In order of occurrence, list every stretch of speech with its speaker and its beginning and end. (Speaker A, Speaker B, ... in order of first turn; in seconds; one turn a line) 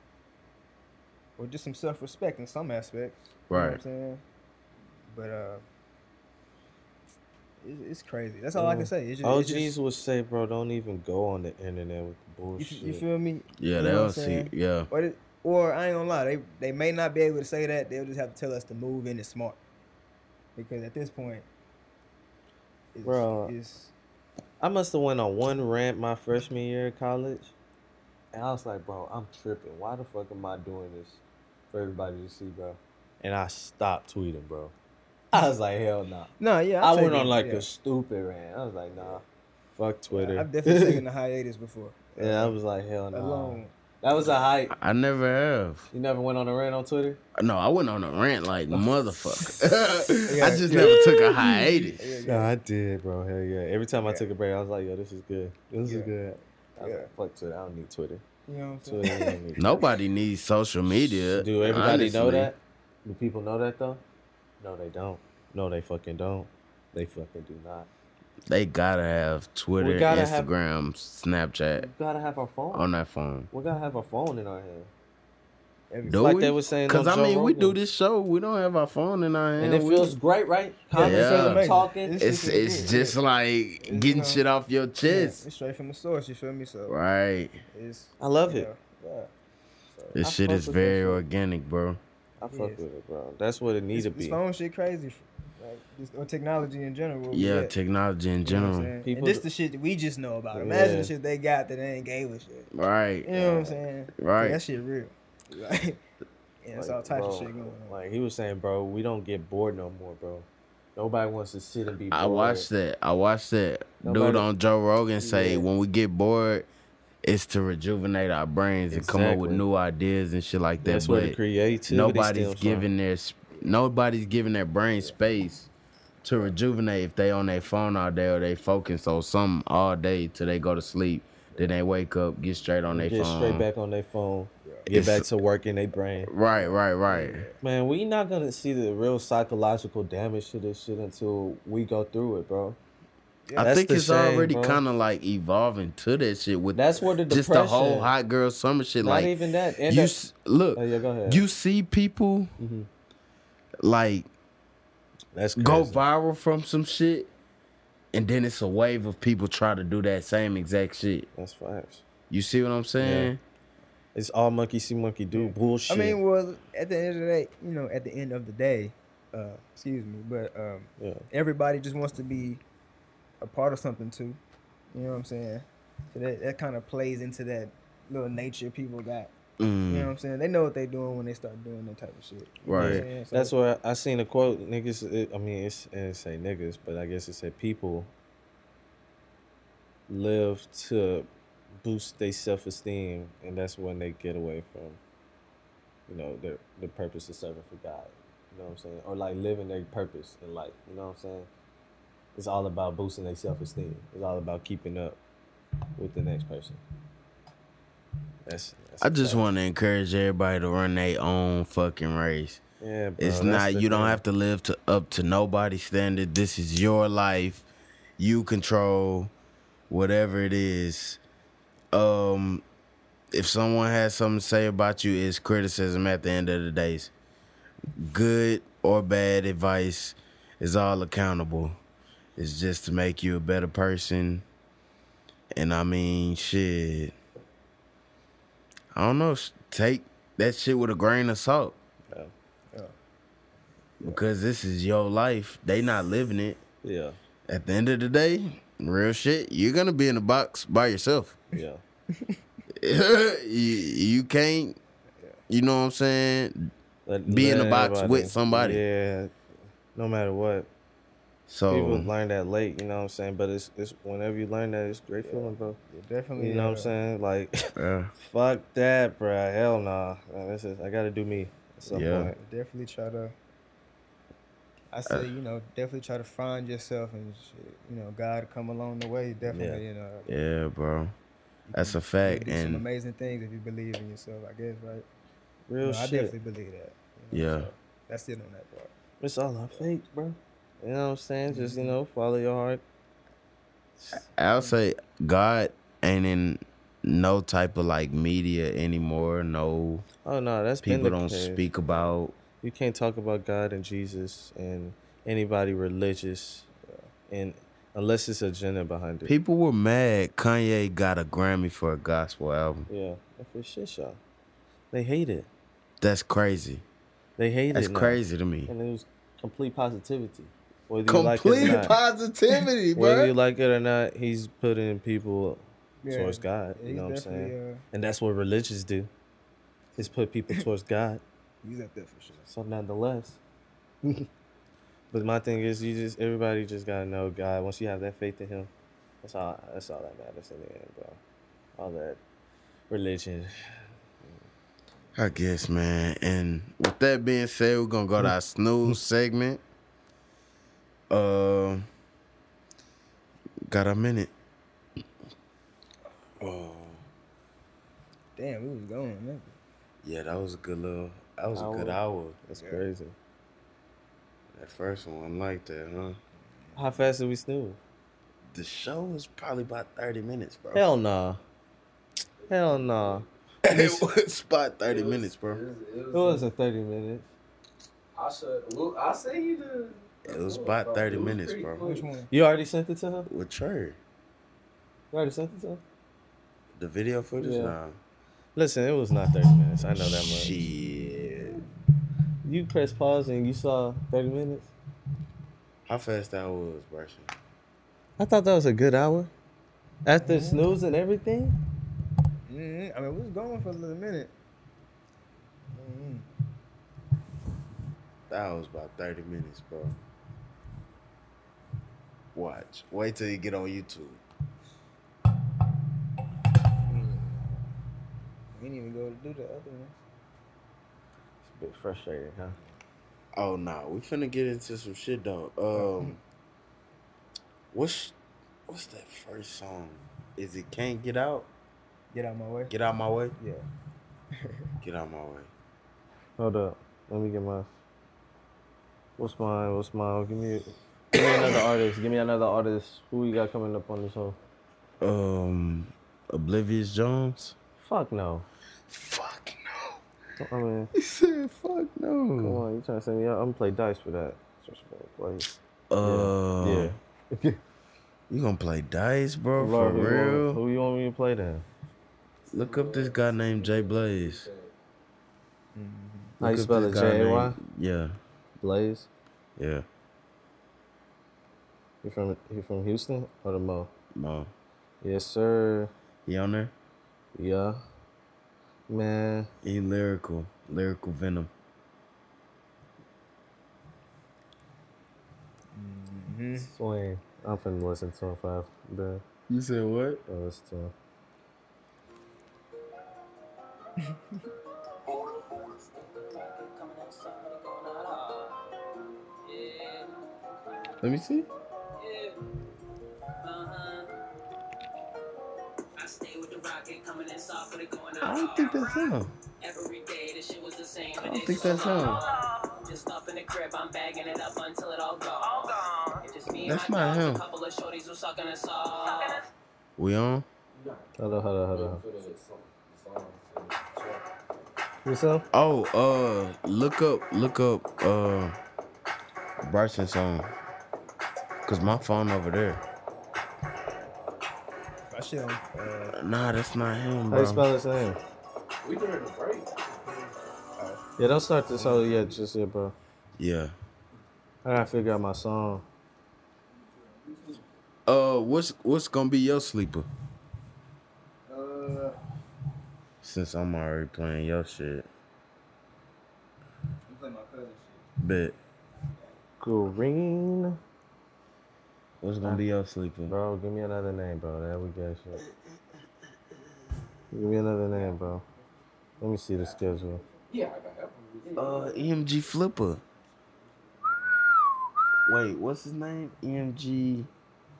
Speaker A: 1.4-4.2
Speaker B: 3.5-3.8
Speaker A: 5.1-5.6
Speaker A: 7.6-9.7
Speaker C: 8.5-13.0
Speaker A: 12.6-19.6
Speaker B: 13.6-14.9
Speaker A: 20.6-21.5
Speaker A: 22.9-23.9
Speaker C: 23.0-23.5
Speaker C: 24.6-27.5
Speaker C: 28.3-31.2
Speaker C: 31.7-34.7
Speaker C: 35.3-39.2
Speaker A: 36.4-37.6
Speaker C: 39.8-41.0
Speaker A: 40.1-42.5
Speaker C: 42.2-44.7
Speaker A: 43.1-43.7
Speaker B: 44.7-45.9
Speaker C: 45.9-47.2
Speaker B: 47.4-52.1
Speaker A: 49.4-49.6
Speaker A: 50.2-52.5
Speaker C: 50.7-51.0
Speaker C: 52.2-58.2
Speaker A: 54.0-54.2
Speaker A: 55.8-56.1
Speaker A: 56.8-57.1
Speaker A: 58.5-59.4
Speaker C: 58.9-59.7
Speaker B: 59.6-62.5
Speaker C: 60.9-64.0
Speaker C: 64.6-67.9
Speaker B: 68.5-71.9
Speaker C: 69.8-70.5
Speaker C: 71.8-72.8
Speaker B: 72.7-73.5
Speaker C: 73.5-74.9
Speaker A: 75.9-76.3
Speaker B: 76.1-80.1
Speaker C: 76.2-77.8
Speaker C: 79.6-82.2
Speaker A: 80.9-83.2
Speaker B: 81.0-85.4
Speaker A: 83.8-84.4
Speaker A: 85.0-87.0
Speaker B: 86.9-87.6
Speaker A: 87.7-89.3
Speaker C: 88.2-88.7
Speaker A: 89.9-90.2
Speaker B: 90.1-92.0
Speaker C: 90.2-91.2
Speaker C: 92.4-94.4
Speaker A: 92.5-92.8
Speaker A: 93.9-97.7
Speaker B: 97.3-98.9
Speaker A: 98.5-102.7
Speaker C: 99.0-99.4
Speaker C: 100.5-101.1
Speaker B: 102.7-104.6
Speaker A: 103.2-106.0
Speaker A: 106.6-108.0
Speaker C: 106.7-112.7
Speaker B: 112.1-116.7
Speaker C: 114.0-114.4
Speaker C: 115.2-115.7
Speaker B: 117.2-125.7
Speaker C: 118.9-119.6
Speaker C: 120.8-122.9
Speaker B: 126.2-133.7
Speaker C: 132.9-136.3
Speaker B: 134.9-135.3
Speaker B: 136.2-137.5
Speaker A: 136.6-137.6
Speaker C: 137.6-142.8
Speaker B: 143.6-149.3
Speaker C: 143.6-144.8
Speaker C: 146.7-148.1
Speaker C: 149.0-150.1
Speaker B: 149.8-152.5
Speaker C: 150.7-151.4
Speaker C: 152.6-152.9
Speaker B: 153.8-154.3
Speaker C: 155.3-156.0
Speaker B: 155.6-157.3
Speaker B: 158.1-161.3
Speaker C: 161.3-162.0
Speaker B: 162.3-163.4
Speaker C: 163.0-163.3
Speaker C: 164.1-166.2
Speaker A: 165.3-172.6
Speaker C: 171.0-171.2
Speaker A: 173.4-174.4
Speaker A: 174.9-179.3
Speaker B: 179.6-180.1
Speaker A: 179.9-183.5
Speaker B: 182.6-183.1
Speaker C: 182.7-188.1
Speaker C: 190.1-191.3
Speaker C: 191.8-195.0
Speaker C: 196.1-201.5
Speaker C: 202.3-205.2
Speaker C: 205.9-206.8
Speaker C: 208.4-209.4
Speaker B: 209.0-212.6
Speaker C: 212.8-214.2
Speaker B: 213.2-217.7
Speaker B: 218.2-219.3
Speaker B: 219.9-221.2
Speaker B: 221.9-222.6
Speaker B: 223.3-227.1
Speaker B: 227.9-231.8
Speaker B: 232.3-234.4
Speaker B: 235.5-237.1
Speaker B: 238.9-241.8
Speaker B: 244.0-246.6
Speaker C: 246.8-247.2
Speaker B: 247.5-251.4
Speaker C: 251.5-251.8
Speaker A: 252.1-252.4
Speaker B: 252.7-254.8
Speaker B: 255.5-256.7
Speaker C: 257.1-259.3
Speaker B: 257.3-258.8
Speaker C: 259.9-260.7
Speaker B: 261.5-262.1
Speaker C: 261.7-265.8
Speaker A: 265.2-266.9
Speaker C: 266.4-272.4
Speaker B: 267.8-268.1
Speaker B: 271.9-272.3
Speaker A: 271.9-273.3
Speaker A: 274.9-280.3
Speaker C: 279.4-279.8
Speaker B: 280.3-281.1
Speaker A: 281.6-285.1
Speaker B: 281.7-282.8
Speaker C: 285.7-286.3
Speaker A: 285.8-288.9
Speaker B: 287.3-287.7
Speaker C: 289.2-292.8
Speaker A: 291.5-291.9
Speaker B: 294.1-300.1
Speaker C: 300.2-301.6
Speaker B: 300.8-302.4
Speaker C: 302.6-306.7
Speaker A: 306.8-307.1
Speaker C: 307.3-309.3
Speaker B: 309.2-312.9
Speaker C: 312.9-314.2
Speaker C: 314.9-315.5
Speaker B: 316.0-316.8
Speaker C: 317.4-321.9
Speaker B: 317.7-318.7
Speaker B: 321.1-323.4
Speaker A: 321.6-321.9
Speaker C: 322.9-329.1
Speaker A: 326.0-327.8
Speaker C: 329.9-331.2
Speaker A: 331.6-332.5
Speaker C: 332.5-333.4
Speaker C: 335.1-338.7
Speaker C: 339.2-341.2
Speaker C: 341.8-342.2
Speaker C: 342.9-344.4
Speaker B: 345.1-349.6
Speaker B: 351.1-351.9
Speaker B: 353.7-354.3
Speaker B: 356.4-357.0
Speaker A: 358.4-359.6
Speaker B: 360.0-362.4
Speaker C: 361.5-363.1
Speaker A: 362.5-362.8
Speaker B: 364.5-366.2
Speaker A: 366.7-367.0
Speaker C: 366.8-367.8
Speaker B: 368.5-370.9
Speaker C: 370.7-371.4
Speaker D: 372.4-373.9
Speaker C: 372.5-373.2
Speaker B: 373.6-375.6
Speaker D: 374.8-376.4
Speaker C: 376.1-377.3
Speaker D: 378.1-382.2
Speaker B: 380.2-381.9
Speaker A: 381.8-382.3
Speaker C: 382.3-383.3
Speaker B: 383.2-384.0
Speaker C: 385.1-385.8
Speaker B: 386.8-388.0
Speaker C: 387.4-387.8
Speaker C: 388.6-390.5
Speaker B: 389.9-391.6
Speaker C: 392.4-394.7
Speaker B: 395.9-397.3
Speaker C: 398.2-399.3
Speaker C: 400.0-401.6
Speaker A: 400.2-400.7
Speaker A: 402.5-404.3
Speaker A: 405.7-406.2
Speaker B: 408.3-409.9
Speaker B: 412.3-414.2
Speaker A: 416.9-417.6
Speaker A: 418.5-420.0
Speaker C: 421.4-422.6
Speaker B: 423.3-426.2
Speaker A: 425.7-426.2
Speaker B: 427.7-428.1
Speaker B: 428.7-431.5
Speaker A: 432.1-432.7
Speaker B: 432.7-433.4
Speaker A: 433.4-433.6
Speaker B: 434.8-435.5
Speaker C: 436.4-437.7
Speaker C: 439.2-444.4
Speaker B: 445.0-447.6
Speaker C: 447.8-448.5
Speaker B: 448.9-450.0
Speaker C: 450.4-450.9
Speaker B: 450.9-452.6
Speaker C: 452.4-457.6
Speaker B: 455.9-456.9
Speaker B: 458.3-460.6
Speaker C: 459.6-461.6
Speaker D: 462.5-464.7
Speaker B: 462.5-464.5
Speaker A: 465.7-466.4
Speaker B: 466.4-468.2
Speaker C: 466.4-467.6
Speaker C: 468.6-469.1
Speaker B: 469.6-469.8
Speaker C: 472.0-473.9
Speaker B: 474.1-474.5
Speaker C: 475.0-475.9
Speaker B: 476.2-476.7
Speaker C: 477.3-477.8
Speaker C: 478.9-479.5
Speaker B: 479.6-481.5
Speaker A: 485.7-486.7
Speaker C: 486.6-489.2
Speaker B: 489.5-490.2
Speaker C: 490.3-490.9
Speaker E: 495.1-498.6
Speaker E: 499.4-501.0
Speaker B: 501.0-501.5
Speaker E: 502.0-502.4
Speaker E: 503.4-504.2
Speaker E: 505.9-519.5
Speaker B: 508.2-509.3
Speaker B: 511.2-512.2
Speaker B: 516.5-517.4
Speaker B: 520.0-520.5
Speaker D: 520.7-524.6
Speaker C: 521.2-522.0
Speaker C: 525.0-525.4
Speaker B: 525.5-528.5
Speaker B: 529.6-530.5
Speaker B: 531.6-532.8
Speaker A: 535.1-536.1
Speaker B: 536.1-537.7
Speaker C: 537.3-538.2
Speaker D: 538.8-540.4
Speaker C: 541.2-542.9
Speaker A: 541.7-542.3
Speaker B: 543.4-543.7
Speaker C: 544.6-545.8
Speaker A: 547.0-547.6
Speaker B: 548.0-550.1
Speaker A: 551.5-552.2
Speaker B: 553.2-555.1
Speaker A: 557.1-558.0
Speaker B: 558.2-558.6
Speaker C: 559.6-560.8
Speaker B: 562.2-563.3
Speaker C: 563.3-565.4
Speaker C: 567.3-568.4
Speaker C: 569.2-570.2
Speaker D: 570.4-572.1
Speaker B: 571.5-573.0
Speaker B: 575.2-577.3